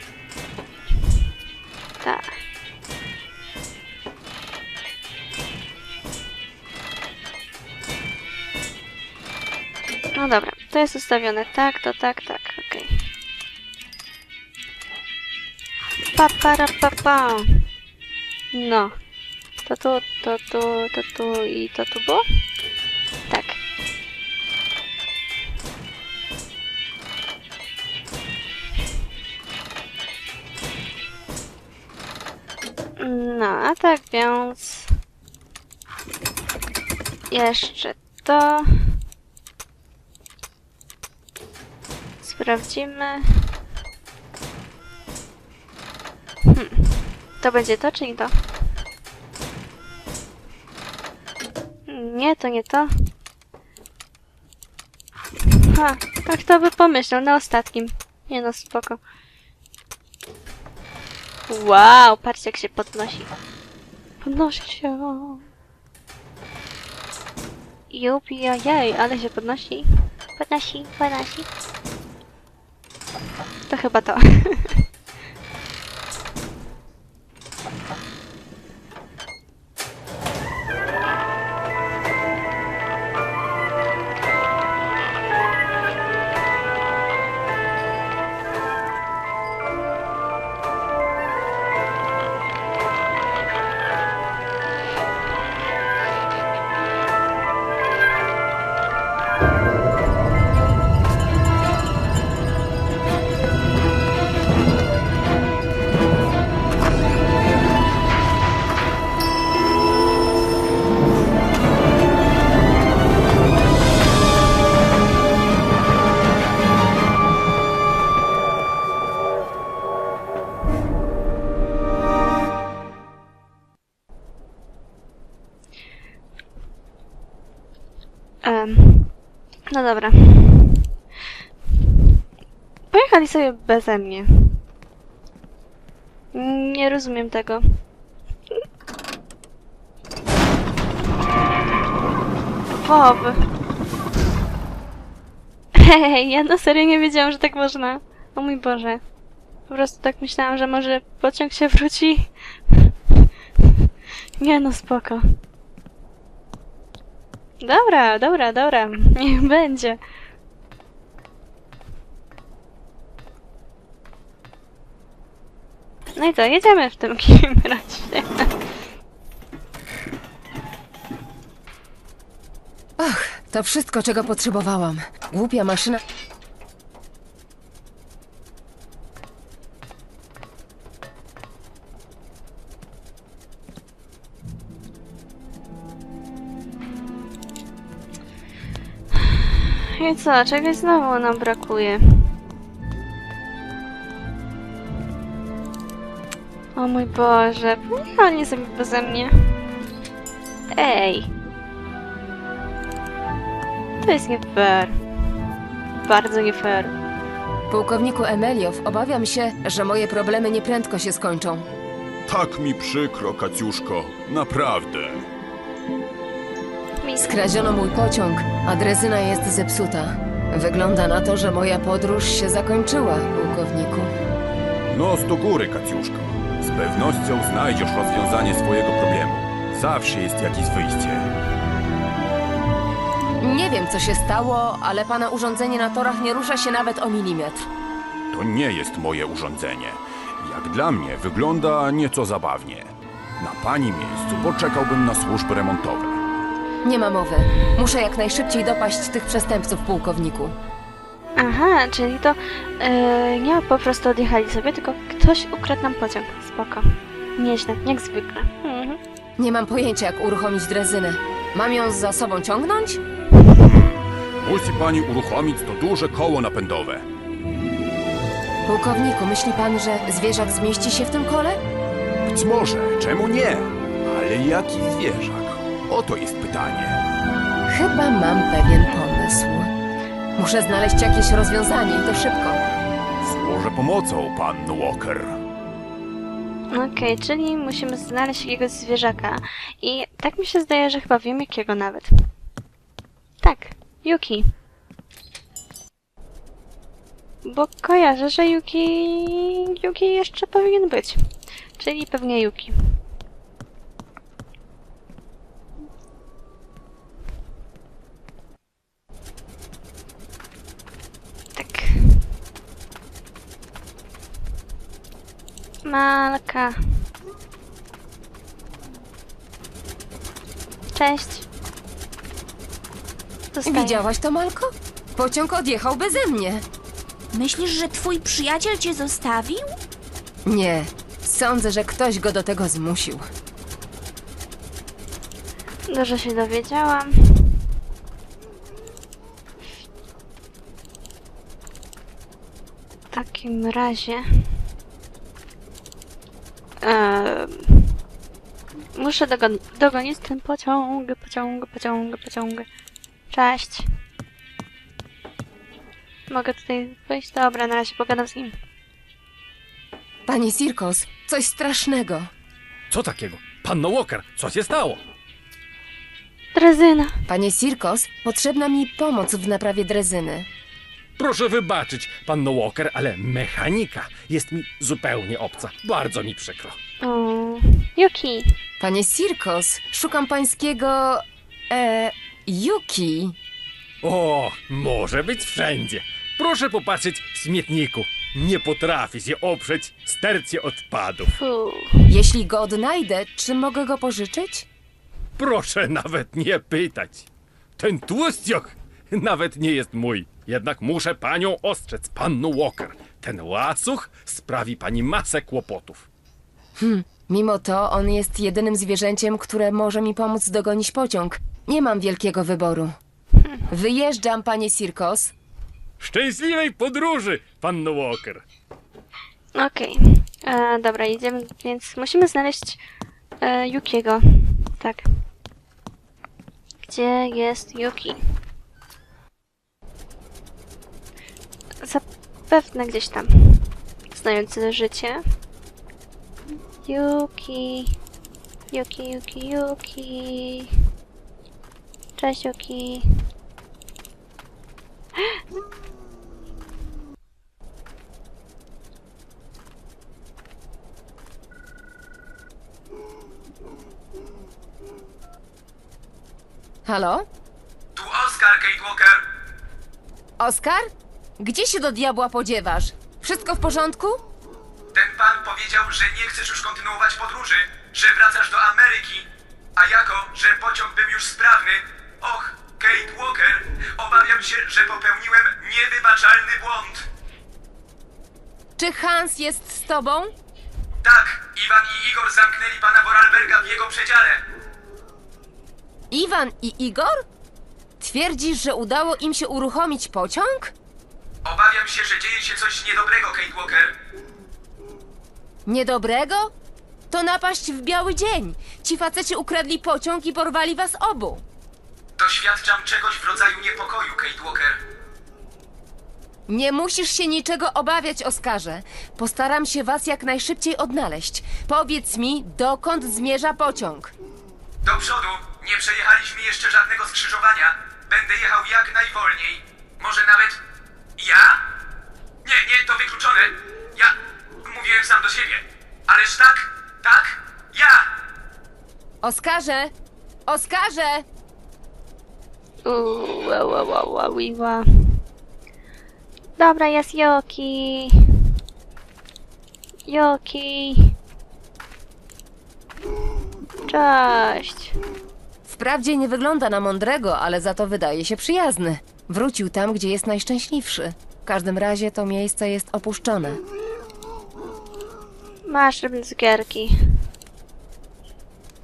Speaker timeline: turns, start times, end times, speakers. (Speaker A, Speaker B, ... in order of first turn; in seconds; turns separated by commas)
Speaker A: 2.0-2.3, Speaker A: 10.2-13.0, Speaker A: 16.1-17.6, Speaker A: 18.5-18.9, Speaker A: 19.6-22.2, Speaker A: 23.3-23.6, Speaker A: 33.0-34.9, Speaker A: 37.3-38.9, Speaker A: 42.2-43.5, Speaker A: 46.5-48.3, Speaker A: 51.9-52.9, Speaker A: 55.5-59.0, Speaker A: 61.5-63.3, Speaker A: 64.2-65.5, Speaker A: 67.9-71.5, Speaker A: 73.7-74.8, Speaker A: 128.4-129.1, Speaker A: 129.7-130.8, Speaker A: 132.9-134.6, Speaker A: 136.3-137.8, Speaker A: 142.7-143.5, Speaker A: 145.8-149.0, Speaker A: 149.7-153.3, Speaker A: 154.4-155.3, Speaker A: 157.6-160.0, Speaker A: 166.2-168.5, Speaker B: 173.0-176.0, Speaker A: 189.2-192.3, Speaker A: 196.8-199.6, Speaker A: 200.7-201.3, Speaker A: 204.0-205.0, Speaker A: 206.0-206.9, Speaker B: 207.7-211.7, Speaker C: 212.3-215.3, Speaker A: 217.0-217.5, Speaker B: 217.2-224.1, Speaker C: 224.9-231.3, Speaker B: 233.4-237.7, Speaker C: 238.3-246.2, Speaker B: 246.8-250.5, Speaker A: 251.4-259.0, Speaker B: 259.4-263.0, Speaker C: 263.5-267.1, Speaker B: 268.7-271.6, Speaker C: 272.3-277.0, Speaker B: 277.7-279.7, Speaker B: 280.4-282.6, Speaker C: 283.2-285.4, Speaker A: 286.7-292.1, Speaker A: 293.4-294.5, Speaker A: 297.4-301.2, Speaker A: 301.8-303.0, Speaker A: 311.6-312.2, Speaker A: 315.9-317.1, Speaker A: 320.9-321.4, Speaker A: 323.5-324.1, Speaker B: 323.7-326.6, Speaker D: 327.3-329.8, Speaker B: 330.5-333.2, Speaker A: 335.9-337.6, Speaker A: 343.1-344.5, Speaker A: 346.8-347.9, Speaker A: 348.9-352.7, Speaker A: 353.3-353.9, Speaker A: 356.3-358.6, Speaker B: 360.3-362.3, Speaker E: 362.9-365.0, Speaker A: 366.6-367.2, Speaker B: 367.3-370.5, Speaker E: 371.2-376.8, Speaker A: 377.0-378.5, Speaker B: 378.8-383.4, Speaker E: 384.0-391.3, Speaker A: 391.3-392.1, Speaker B: 392.1-394.7, Speaker E: 395.4-397.3, Speaker E: 397.8-406.1, Speaker B: 406.8-413.0, Speaker B: 413.7-415.3, Speaker E: 416.0-418.4, Speaker A: 419.6-422.8, Speaker A: 423.4-425.1, Speaker A: 426.9-428.2, Speaker A: 431.8-435.2, Speaker A: 436.9-438.0, Speaker A: 438.7-440.7, Speaker A: 442.2-443.1, Speaker B: 456.9-457.3, Speaker F: 457.9-459.2, Speaker B: 460.4-464.2, Speaker F: 464.9-477.1, Speaker B: 478.8-480.3, Speaker F: 481.0-484.4, Speaker B: 486.1-487.2, Speaker B: 488.0-490.7, Speaker F: 491.4-493.9, Speaker B: 495.7-496.5, Speaker B: 497.1-501.4, Speaker F: 502.2-504.8, Speaker B: 506.5-514.1, Speaker F: 514.8-520.6, Speaker F: 521.2-521.6, Speaker F: 522.4-528.0, Speaker B: 529.2-529.9, Speaker B: 530.5-531.3, Speaker A: 532.9-535.2, Speaker A: 536.6-538.4, Speaker A: 540.1-541.2, Speaker A: 543.9-544.9, Speaker B: 545.7-553.6, Speaker A: 555.7-557.2